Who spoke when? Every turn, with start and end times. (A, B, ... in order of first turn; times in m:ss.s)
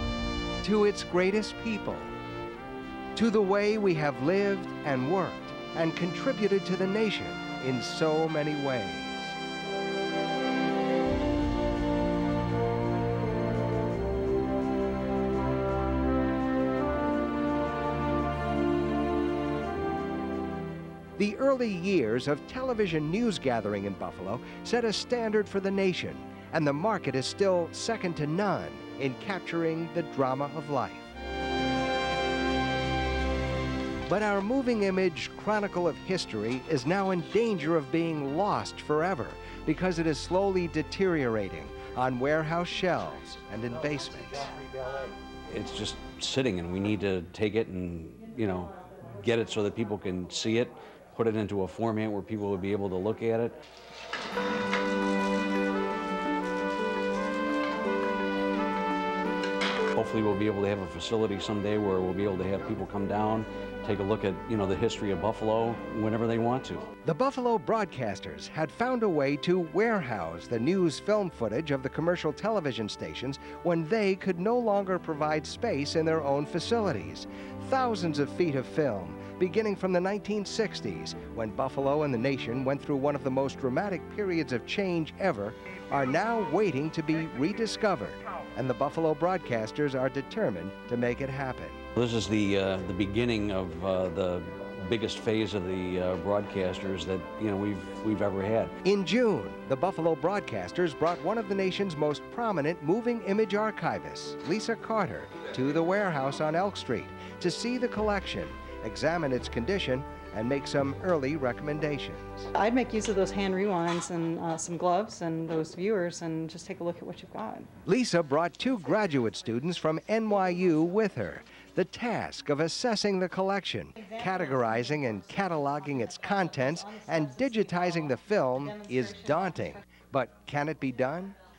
0:00.6-0:02.1 A
0:03.1-0:09.4 A
0:21.2-0:31.1 A
0:34.1-0:44.6 A
0:45.5-0:53.6 B
0:59.9-1:06.8 B
1:07.0-1:31.8 A
1:31.9-1:38.7 B
1:38.8-1:52.5 A
1:52.6-1:57.7 C
1:57.8-2:11.3 A
2:04.0-2:09.9 C